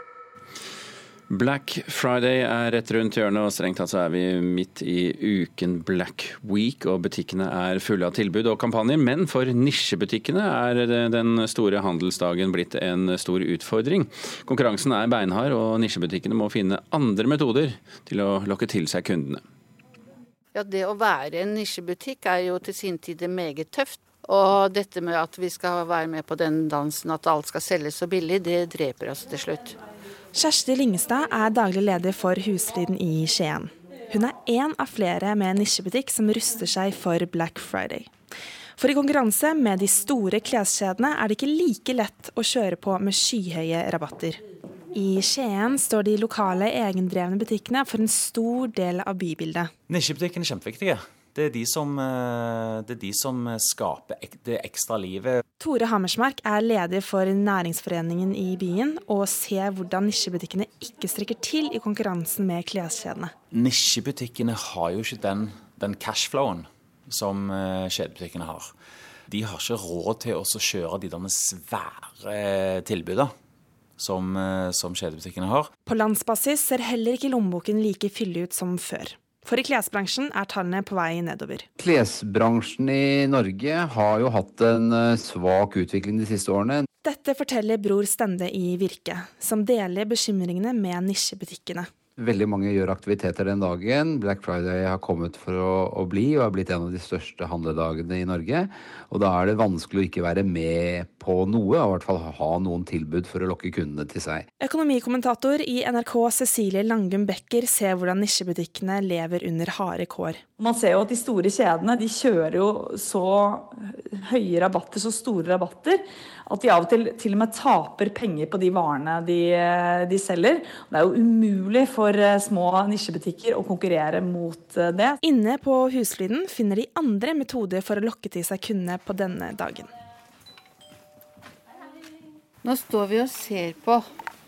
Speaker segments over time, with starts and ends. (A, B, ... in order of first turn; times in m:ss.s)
0:01.3-0:19.4 A
0:20.5-0:29.7 B
0:30.3-0:38.1 C
0:38.8-0:44.4 C
0:44.9-0:49.7 C
0:49.9-0:55.4 D
0:55.6-1:03.3 C
1:03.5-1:08.7 D
1:09.3-1:13.3 D
1:14.0-1:15.7 D
1:15.8-1:21.6 C
1:21.8-1:26.8 E
1:27.0-1:31.9 C
1:32.2-1:44.4 E
1:44.6-1:50.4 C
1:50.6-2:05.2 F
2:05.2-2:09.9 C
2:12.6-2:14.0 B